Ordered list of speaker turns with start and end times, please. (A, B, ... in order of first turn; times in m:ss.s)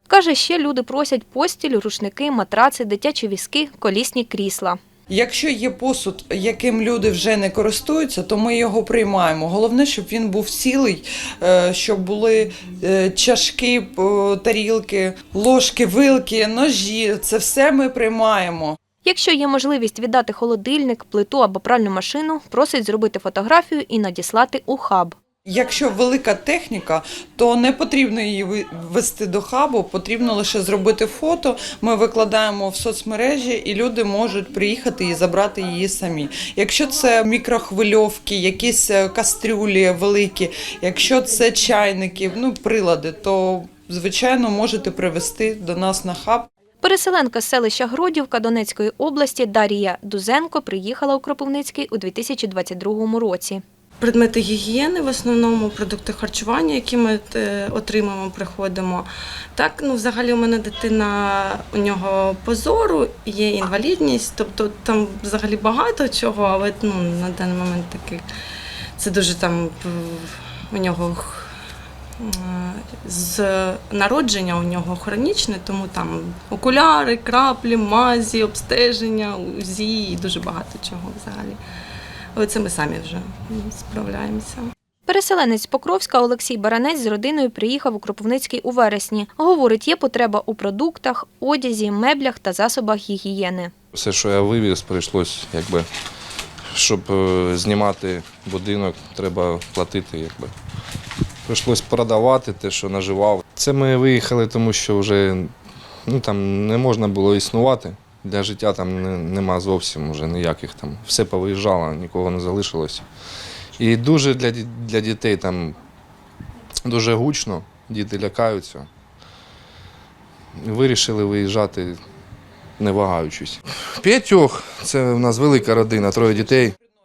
0:00.1-0:04.8 A
0:05.1-0:18.8 B
0:19.0-0:25.2 A
0:25.5-0:46.5 B
0:46.8-0:53.6 A
0:54.0-1:08.3 C
1:09.0-1:11.5 C
1:12.2-1:21.6 C
1:22.4-1:24.7 C
1:25.1-1:33.7 A
1:33.9-1:35.9 D
1:36.7-1:40.5 D
1:41.5-1:45.5 D
1:46.1-1:53.0 D
1:53.8-1:55.8 D
1:56.8-1:58.9 D
2:00.6-2:02.0 D
2:02.8-2:06.8 D